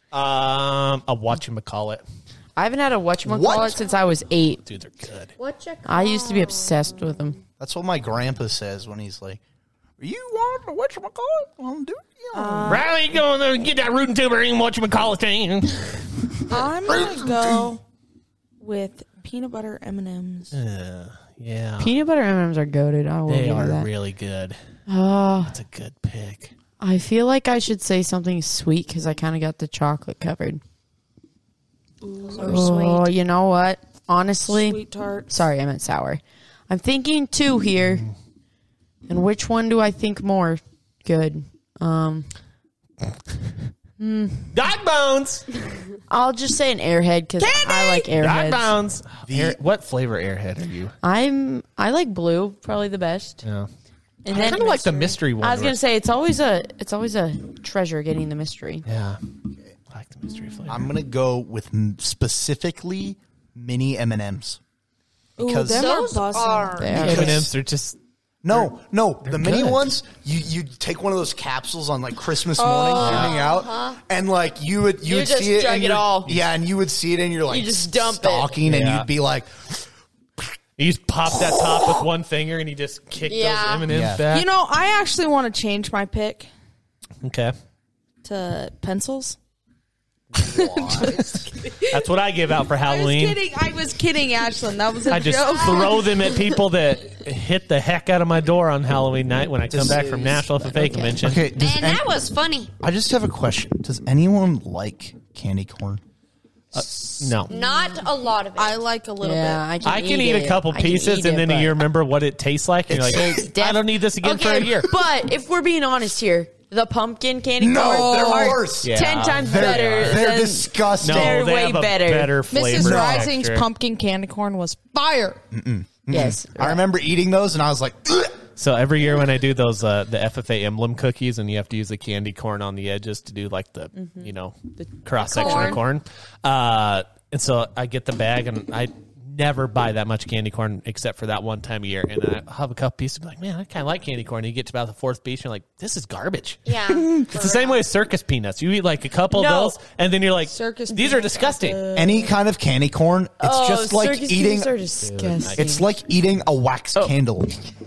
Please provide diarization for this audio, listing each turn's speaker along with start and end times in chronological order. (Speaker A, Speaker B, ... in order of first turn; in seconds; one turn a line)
Speaker A: 0.1-2.0
Speaker B: 2.6-4.6
Speaker C: 3.2-3.8
Speaker A: 4.7-5.3
Speaker D: 5.4-7.2
Speaker B: 5.8-7.4
Speaker C: 7.6-9.4
Speaker C: 10.0-12.8
Speaker E: 12.3-12.9
Speaker A: 12.7-16.4
Speaker E: 16.5-17.8
Speaker C: 16.9-17.6
Speaker E: 18.6-20.6
Speaker A: 20.5-21.9
Speaker B: 21.8-23.9
Speaker A: 23.3-24.6
Speaker B: 24.9-25.6
Speaker A: 25.5-26.5
Speaker B: 26.8-30.6
Speaker E: 32.0-32.8
Speaker D: 32.3-33.1
Speaker B: 32.4-38.1
Speaker E: 34.5-35.4
Speaker B: 39.1-42.3
Speaker B: 44.0-44.5
Speaker A: 44.5-45.5
Speaker B: 46.1-48.8
Speaker E: 47.4-48.1
Speaker A: 48.1-51.0
Speaker C: 49.3-49.6
Speaker B: 51.0-53.4
Speaker A: 53.4-53.7
Speaker B: 54.2-58.9
Speaker A: 54.3-55.8
Speaker A: 58.9-59.2
Speaker A: 59.9-60.9
Speaker E: 60.3-60.7
Speaker C: 60.7-64.6
Speaker C: 65.4-66.0
Speaker E: 65.4-67.3
Speaker D: 65.7-67.4
Speaker B: 66.8-67.5
Speaker A: 67.0-68.0
Speaker C: 68.4-79.8
Speaker A: 69.2-69.9
Speaker E: 72.5-73.4
Speaker D: 73.0-74.0
Speaker A: 73.1-73.3
Speaker B: 75.0-76.3
Speaker B: 77.5-78.5
Speaker A: 78.6-79.1
Speaker A: 80.8-84.5
Speaker D: 83.2-83.9
Speaker C: 83.9-84.3
Speaker E: 84.3-86.5
Speaker A: 87.2-87.5
Speaker E: 88.2-89.4
Speaker C: 90.3-91.5
Speaker E: 90.9-91.9
Speaker A: 91.7-93.4
Speaker E: 92.7-96.2
Speaker A: 95.1-101.5
Speaker C: 99.7-100.5
Speaker B: 99.8-101.2
Speaker C: 101.2-102.2
Speaker D: 101.5-102.7
Speaker C: 102.8-106.0
Speaker A: 106.7-107.5
Speaker D: 107.4-108.8
Speaker E: 108.6-109.7
Speaker B: 109.2-111.8
Speaker A: 109.8-114.9
Speaker B: 112.9-122.4
Speaker C: 117.6-121.5
Speaker E: 117.8-118.6
Speaker A: 118.8-120.3
Speaker A: 121.0-123.7
Speaker E: 122.5-125.4
Speaker C: 122.8-123.3
Speaker C: 125.5-128.4
Speaker B: 126.1-126.8
Speaker A: 128.6-151.8
Speaker B: 134.0-135.8
Speaker D: 135.2-135.8
Speaker D: 146.7-147.8
Speaker B: 149.3-149.8
Speaker E: 150.4-151.8
Speaker B: 151.1-152.3
Speaker C: 151.9-154.7
Speaker B: 153.4-156.0
Speaker A: 155.0-155.7
Speaker C: 155.6-157.6